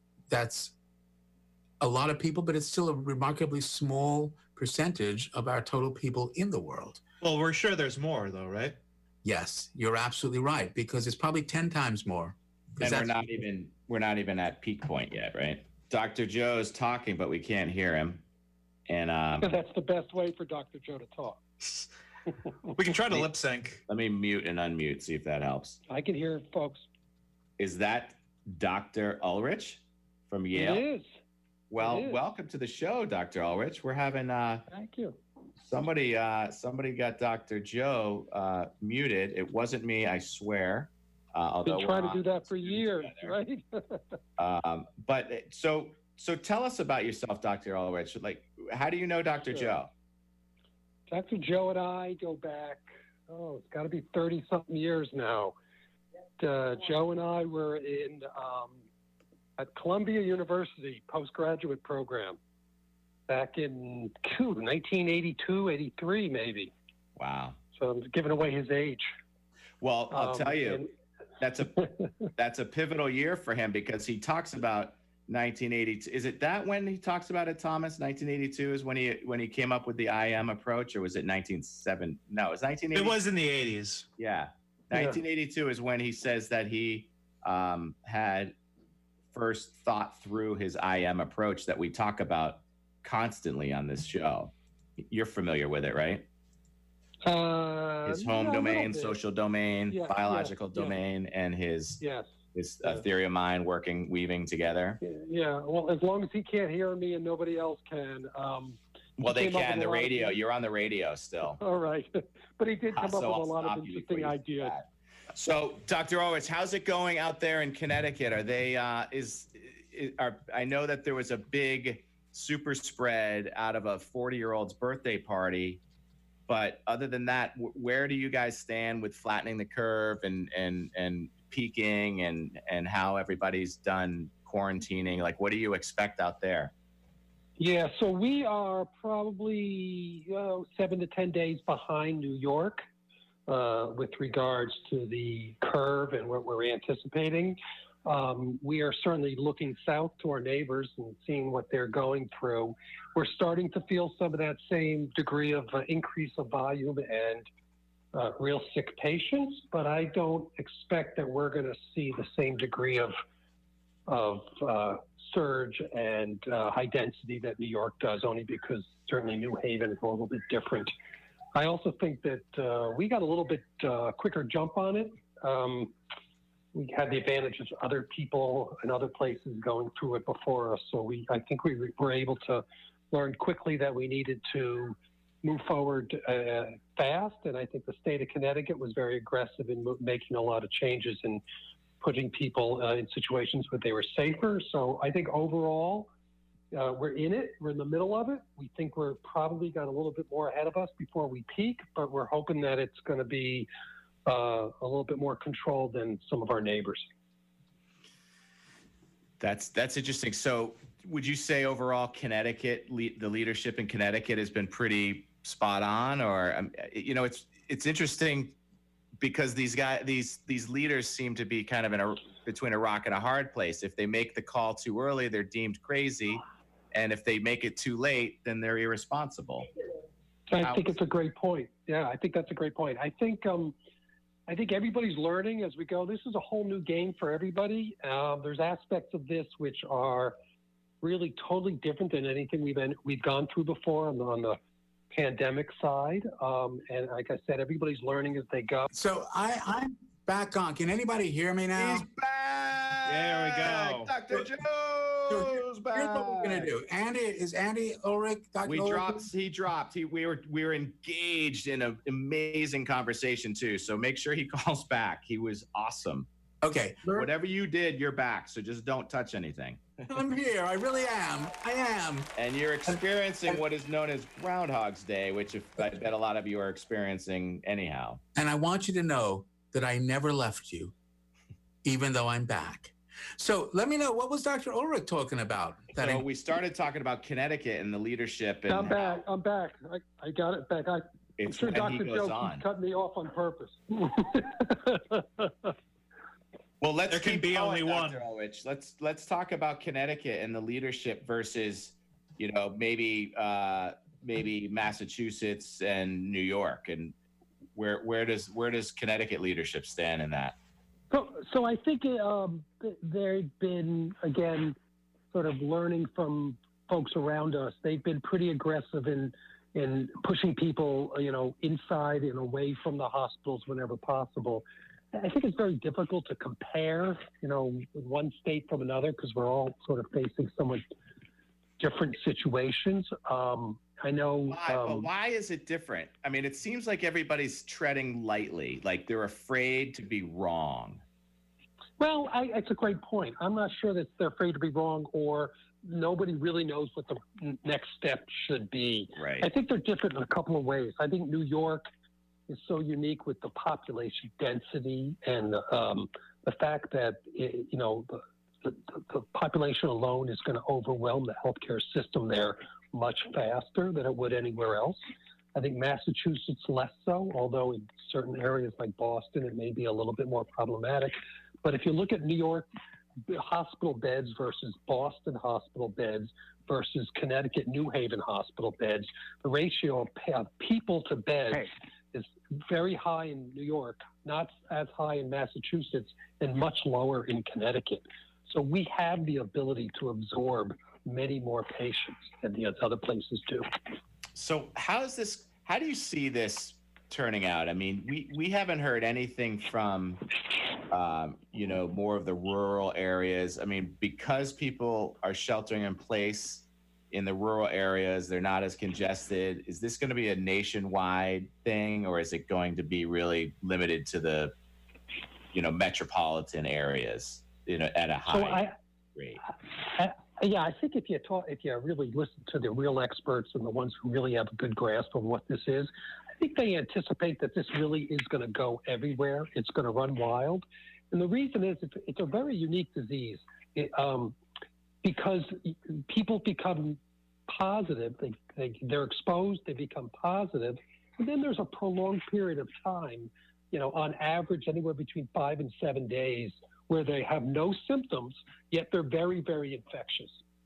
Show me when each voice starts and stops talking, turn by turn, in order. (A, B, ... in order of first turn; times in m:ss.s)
0:00.3-0:00.7 A
0:01.8-0:07.0 A
0:07.2-0:08.8 B
0:09.2-0:13.2 A
0:12.8-0:18.2 C
0:18.9-0:19.6 C
0:19.4-0:21.4 D
0:22.8-0:23.8 B
0:23.9-0:25.8 C
0:25.9-0:26.8 D
0:27.6-0:30.8 C
0:30.5-0:31.1 D
0:31.7-0:34.6 C
0:31.8-0:32.2 D
0:34.7-0:35.2 D
0:35.6-0:43.4 C
0:41.6-0:44.0 D
0:44.4-0:49.9 C
0:51.1-0:55.6 D
0:56.4-0:58.8 D
0:59.6-1:02.4 D
1:03.3-1:06.7 D
1:07.2-1:07.6 C
1:07.8-1:09.1 D
1:09.8-1:10.8 C
1:10.1-1:10.9 D
1:11.4-1:23.2 C
1:22.9-1:24.1 B
1:24.2-1:28.5 C
1:24.9-1:25.2 D
1:29.3-1:34.5 C
1:35.1-1:36.3 C
1:37.2-1:39.2 D
1:38.0-1:42.0 C
1:39.9-1:41.0 D
1:42.0-1:42.3 D
1:42.5-1:45.0 C
1:45.0-1:50.4 D
1:49.2-1:51.6 C
1:51.6-1:54.8 D
1:52.9-2:05.8 C
2:06.5-2:16.7 C
2:17.6-2:22.8 D
2:23.5-2:37.5 D
2:38.1-2:43.2 D
2:44.1-2:50.9 D
2:51.5-2:55.9 D
2:56.7-3:11.4 D
3:12.0-3:16.1 D
3:16.7-3:23.7 D
3:24.2-3:27.1 D
3:29.4-3:38.6 C
3:39.2-3:49.7 C
3:50.5-3:53.7 D
3:50.6-3:50.9 C
3:54.5-4:00.4 D
4:01.0-4:04.6 D
4:05.1-4:08.9 D
4:08.9-4:12.0 A
4:11.8-4:16.7 C
4:13.1-4:14.3 B
4:15.3-4:19.3 A
4:18.6-4:26.3 C
4:26.6-4:27.3 A
4:27.1-4:30.0 C
4:30.1-4:32.3 A
4:32.4-4:38.2 C
4:32.9-4:33.6 A
4:38.4-4:40.9 A
4:41.8-4:46.2 A
4:46.0-4:49.2 C
4:48.7-4:55.7 D
4:51.4-4:52.6 C
4:56.8-5:07.1 C
4:57.1-4:58.2 B
5:07.8-5:10.6 C
5:11.1-5:14.8 D
5:15.3-5:30.8 D
5:31.8-5:35.1 D
5:34.5-5:41.0 C
5:42.0-5:51.9 D
5:49.2-5:49.5 C
5:52.5-6:05.0 D
6:05.5-6:12.7 D
6:13.3-6:33.7 D
6:34.4-6:40.2 C
6:40.9-6:54.5 C
6:55.5-6:59.4 C
6:58.3-6:58.8 D
6:59.4-7:14.4 D
7:15.0-7:30.4 D